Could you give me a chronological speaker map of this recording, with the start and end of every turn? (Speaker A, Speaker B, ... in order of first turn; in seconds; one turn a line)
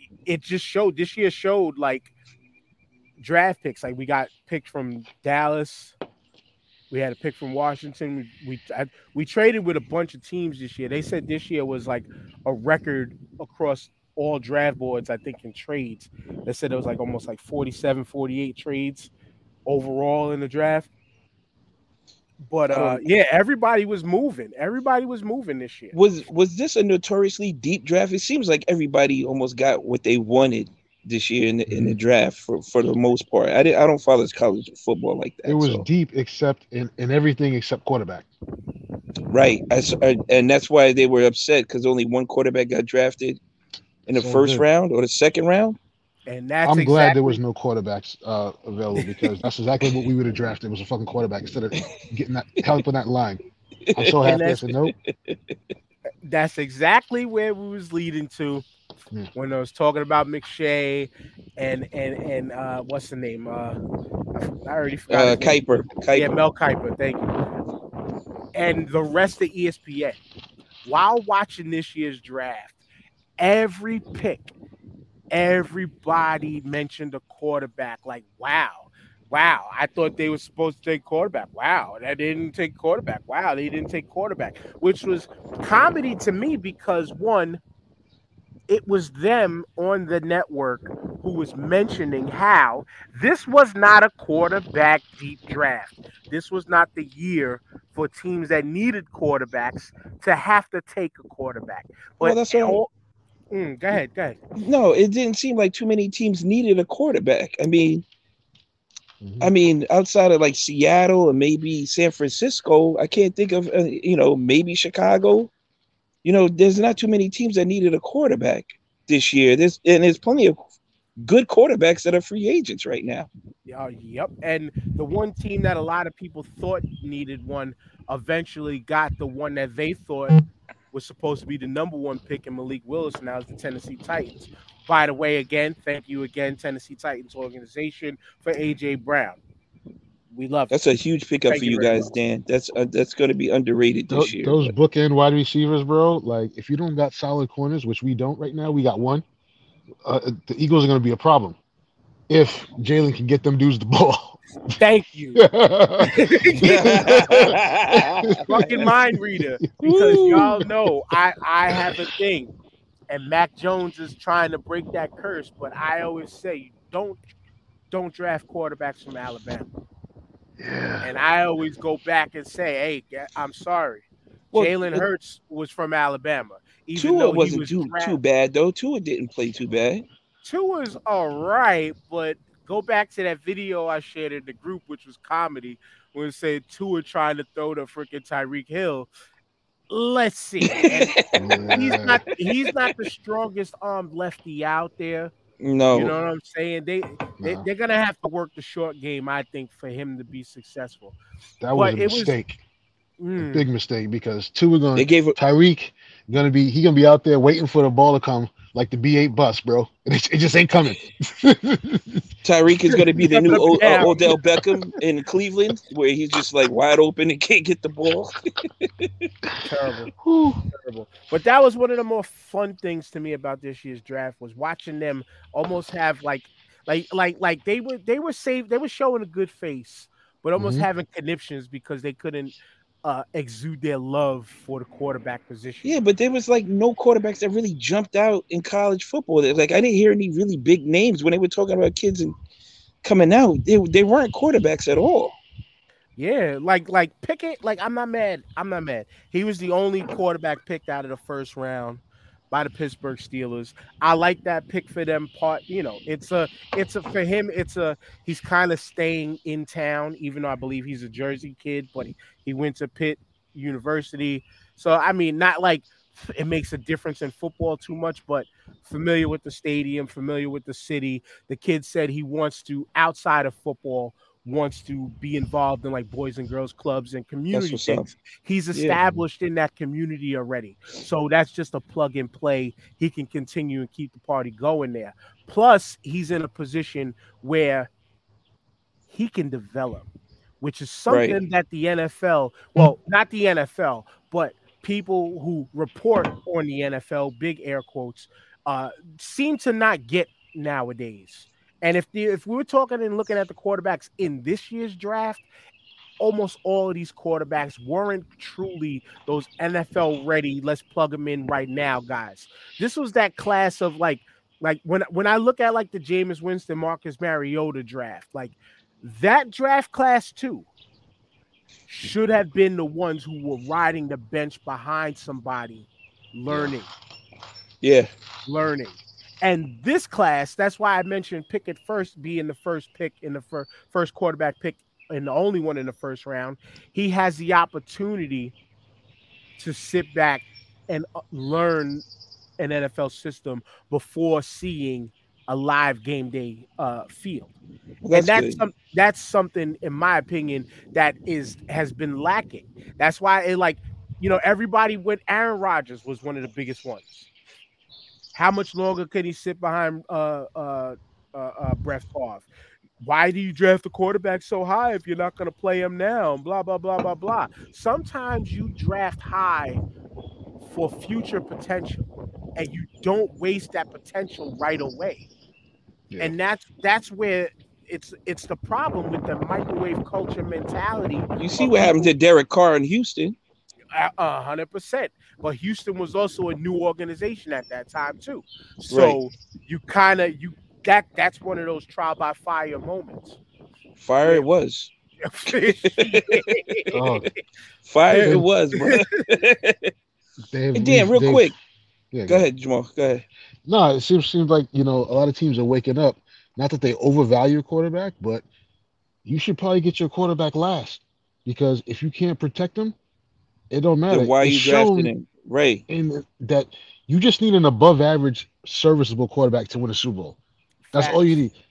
Speaker A: 0.2-2.1
Speaker A: 3.2-5.9
Speaker A: 6.9-19.1
Speaker A: 19.6-20.9
Speaker A: 22.4-25.9
Speaker B: 22.7-23.0
Speaker B: 25.9-35.9
Speaker C: 31.7-32.0
Speaker C: 35.4-38.3
Speaker B: 39.3-43.4
Speaker B: 44.1-45.8
Speaker C: 44.1-44.6
Speaker A: 46.3-47.4
Speaker C: 46.6-53.4
Speaker A: 49.0-49.3
Speaker B: 53.9-54.3
Speaker C: 53.9-54.9
Speaker A: 54.2-54.6
Speaker B: 54.8-55.5
Speaker A: 56.2-58.6
Speaker A: 59.3-63.8
Speaker A: 64.3-67.3
Speaker B: 65.1-66.3
Speaker A: 68.5-70.2
Speaker A: 70.8-72.8
Speaker A: 73.4-74.5
Speaker A: 75.3-87.6
Speaker A: 88.7-102.9
Speaker B: 102.2-102.8
Speaker A: 103.5-104.4
Speaker B: 104.6-108.0
Speaker C: 109.2-109.5
Speaker B: 109.4-115.5
Speaker B: 116.2-120.6
Speaker B: 121.2-123.3
Speaker A: 123.7-139.4
Speaker A: 140.3-140.8
Speaker B: 140.7-144.7
Speaker A: 141.5-142.1
Speaker C: 144.1-149.2
Speaker C: 150.0-151.6
Speaker C: 152.3-154.4
Speaker A: 154.8-155.4
Speaker C: 155.3-157.6
Speaker A: 156.0-157.6
Speaker B: 156.6-158.7
Speaker C: 158.2-158.9
Speaker A: 158.5-162.5
Speaker B: 159.8-160.6
Speaker A: 163.1-167.2
Speaker A: 167.9-169.7
Speaker C: 170.6-171.1
Speaker A: 171.0-178.2
Speaker B: 174.5-175.1
Speaker B: 176.9-180.1
Speaker A: 180.4-189.1
Speaker A: 189.9-191.2
Speaker B: 190.7-191.6
Speaker C: 191.4-192.2
Speaker A: 191.7-195.3
Speaker B: 195.6-196.1
Speaker A: 195.9-201.2
Speaker C: 197.4-197.7
Speaker C: 201.6-202.6
Speaker A: 201.7-202.4
Speaker A: 203.2-203.7
Speaker C: 203.4-212.2
Speaker B: 204.9-205.3
Speaker B: 212.4-219.1
Speaker A: 213.2-214.2
Speaker A: 219.6-220.1
Speaker C: 220.2-220.6
Speaker A: 220.7-236.0
Speaker C: 230.6-230.8
Speaker B: 235.8-242.3
Speaker B: 243.0-245.4
Speaker A: 246.2-287.9
Speaker B: 277.5-278.1
Speaker B: 278.7-279.0
Speaker A: 289.1-290.1
Speaker A: 290.6-305.4
Speaker B: 291.1-291.4
Speaker A: 306.2-320.7
Speaker A: 321.9-326.9
Speaker B: 327.8-328.1
Speaker A: 328.4-338.5
Speaker A: 339.6-342.0
Speaker A: 342.6-347.5
Speaker B: 348.0-348.6
Speaker A: 348.1-357.3
Speaker A: 358.3-362.5
Speaker A: 363.0-369.8
Speaker A: 370.6-375.2
Speaker A: 376.2-382.1
Speaker B: 381.4-383.4
Speaker A: 383.9-393.4
Speaker B: 388.9-389.2
Speaker B: 394.0-394.9
Speaker A: 395.2-397.0
Speaker B: 395.8-396.7
Speaker C: 396.9-397.3
Speaker B: 397.9-399.9
Speaker A: 398.1-399.0
Speaker C: 398.2-398.5
Speaker C: 400.5-401.5
Speaker B: 400.7-401.5
Speaker C: 402.1-402.4
Speaker B: 402.3-403.2
Speaker C: 403.6-408.4
Speaker C: 409.2-412.9
Speaker C: 413.7-415.1
Speaker B: 414.1-415.8
Speaker C: 415.9-420.4
Speaker A: 420.9-421.4
Speaker C: 420.9-421.5